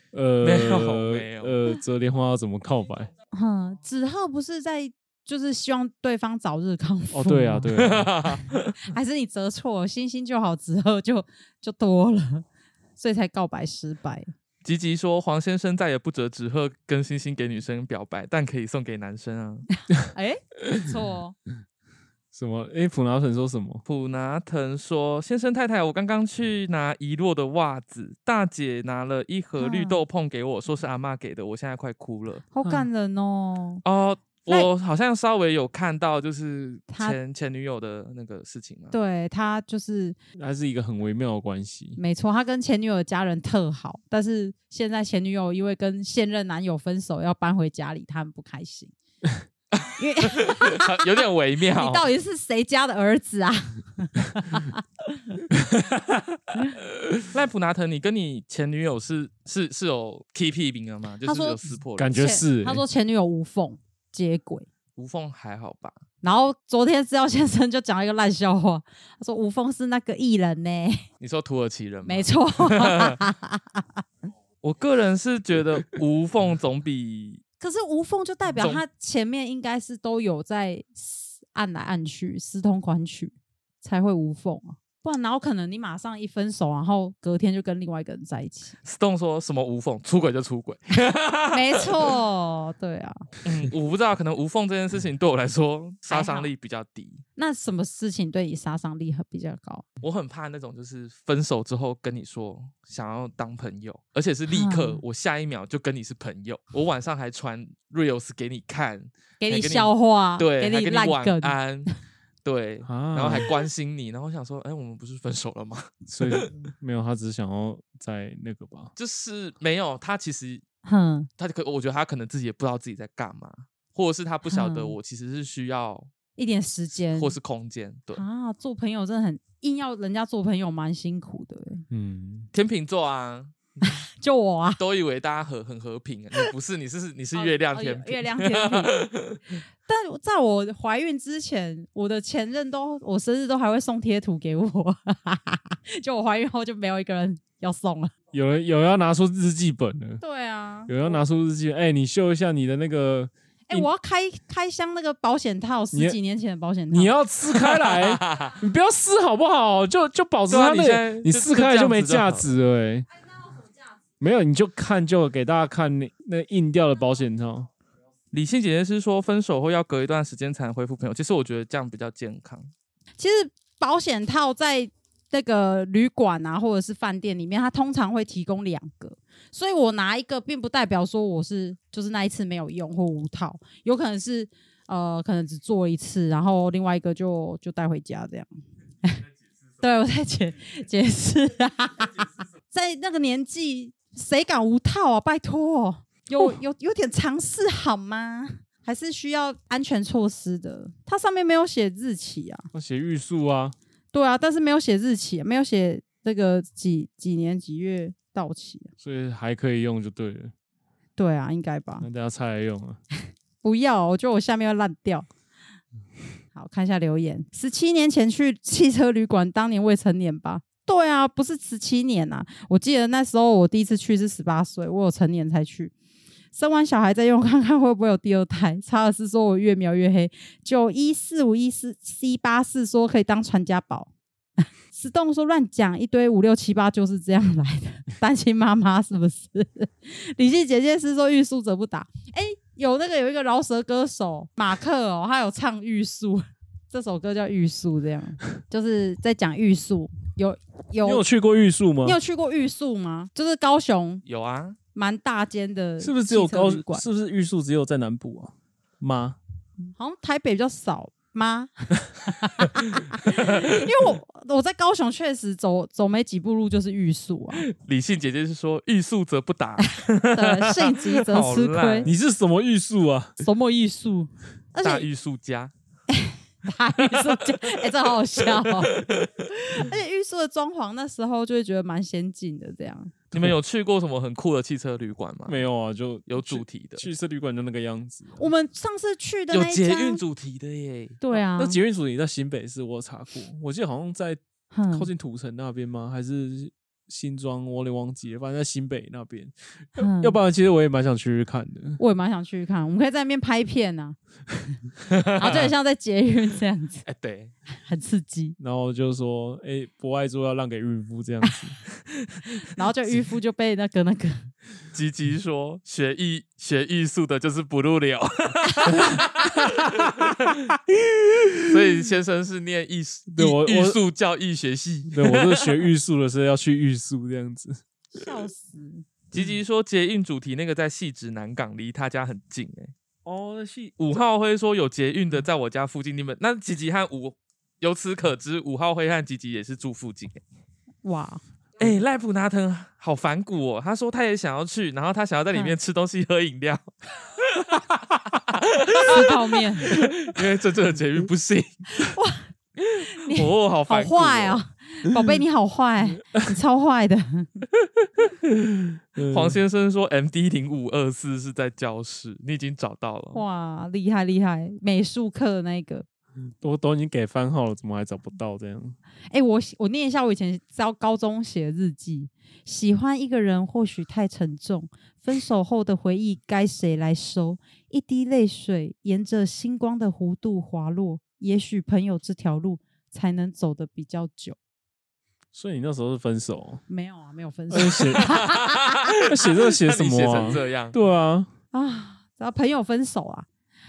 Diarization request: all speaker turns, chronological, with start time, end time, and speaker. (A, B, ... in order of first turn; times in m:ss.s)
0:00.1-0:03.1 A
0:00.4-0:01.6 B
0:03.3-0:07.7 C
0:07.1-0:08.1 A
0:07.8-0:08.8 B
0:08.8-0:12.4 C
0:13.0-0:14.3 C
0:14.6-0:19.7 B
0:20.1-0:21.3 C
0:22.3-0:23.8 A
0:23.9-0:32.4 B
0:29.6-0:30.0 C
0:32.5-0:33.8 C
0:33.8-0:38.9 B
0:36.9-0:37.2 C
0:38.9-0:40.2 C
0:40.4-0:42.0 A
0:42.0-0:48.9 C
0:49.7-0:52.1 B
0:50.0-0:51.1 C
0:51.7-0:55.4 C
0:55.9-0:56.4 B
0:57.2-1:02.4 B
1:01.2-1:04.7 C
1:02.0-1:02.8 A
1:05.0-1:06.0 B
1:06.2-1:11.1 C
1:11.2-1:13.2 B
1:12.0-1:14.0 C
1:14.6-1:17.4 B
1:17.6-1:28.8 C
1:28.8-1:32.1 B
1:31.5-1:33.2 C
1:33.4-1:37.2 B
1:36.1-1:36.5 C
1:37.4-1:39.8 C
1:40.0-1:51.9 B
1:44.5-1:45.0 C
1:49.4-1:51.6 C
1:52.4-1:56.5 B
1:52.8-1:53.5 A
1:56.1-1:58.9 A
1:59.0-2:00.6 B
2:00.8-2:01.3 C
2:01.4-2:06.1 B
2:04.5-2:05.0 C
2:06.4-2:07.4 C
2:07.1-2:08.2 B
2:08.1-2:11.8 C
2:11.9-2:12.5 A
2:12.5-2:13.6 B
2:13.8-2:14.8 C
2:14.8-2:19.5 B
2:17.3-2:19.0 C
2:19.8-2:28.1 C
2:28.3-2:30.2 A
2:30.2-2:31.2 C
2:30.9-2:33.9 A
2:33.7-2:37.1 C
2:36.9-2:43.1 A
2:37.5-2:38.5 B
2:40.5-2:42.4 B
2:44.2-2:47.7 A
2:48.3-2:52.7 B
2:53.2-3:08.5 C
3:09.8-3:22.7 C
3:22.7-3:23.8 A
3:24.1-3:28.9 C
3:29.0-3:30.5 A
3:31.2-3:32.1 C
3:32.0-3:33.0 A
3:33.6-3:35.2 C
3:36.5-3:45.9 C
3:46.5-4:11.2 C
4:11.0-4:12.2 A
4:12.0-4:14.2 C
4:14.2-4:14.8 B
4:14.9-4:17.0 C
4:16.0-4:19.4 A
4:19.9-4:27.6 C
4:23.3-4:23.6 B
4:27.6-4:32.1 B
4:29.8-4:32.1 C
4:32.0-4:33.4 A
4:33.4-4:35.0 C
4:34.8-4:35.7 B
4:36.1-4:38.9 C
4:37.1-4:37.9 B
4:38.4-4:39.5 B
4:39.5-4:43.1 C
4:43.3-4:45.6 B
4:45.4-4:48.4 A
4:46.3-4:47.1 B
4:48.4-4:50.2 C
4:49.5-4:51.2 B
4:51.2-4:51.8 C
4:51.5-4:54.4 A
4:54.7-4:55.1 C
4:54.9-5:02.0 A
5:00.0-5:00.4 C
5:02.0-5:04.2 C
5:05.1-5:05.7 B
5:05.4-5:07.0 C
5:07.0-5:07.5 B
5:07.8-5:08.6 C
5:08.6-5:11.8 A
5:12.7-5:14.5 C
5:14.9-5:20.8 B
5:19.0-5:20.2 A
5:21.3-5:21.8 A
5:21.6-5:25.8 B
5:23.3-5:24.0 A
5:25.1-5:27.8 A
5:28.1-5:29.0 C
5:29.3-5:32.9 B
5:33.2-5:34.0 A
5:34.0-5:40.4 B
5:41.0-5:41.4 C
5:41.8-5:52.1 B
5:49.0-5:50.0 C
5:52.0-5:52.5 C
5:52.8-5:54.6 B
5:53.1-5:57.6 C
5:58.7-5:59.6 A
5:59.2-6:03.4 B
6:03.3-6:06.0 C
6:06.6-6:09.0 A
6:09.3-6:24.6 C
6:25.5-6:26.8 A
6:26.9-6:29.1 C
6:27.7-6:28.4 A
6:28.2-6:31.0 B
6:29.2-6:31.5 A
6:31.7-6:33.5 C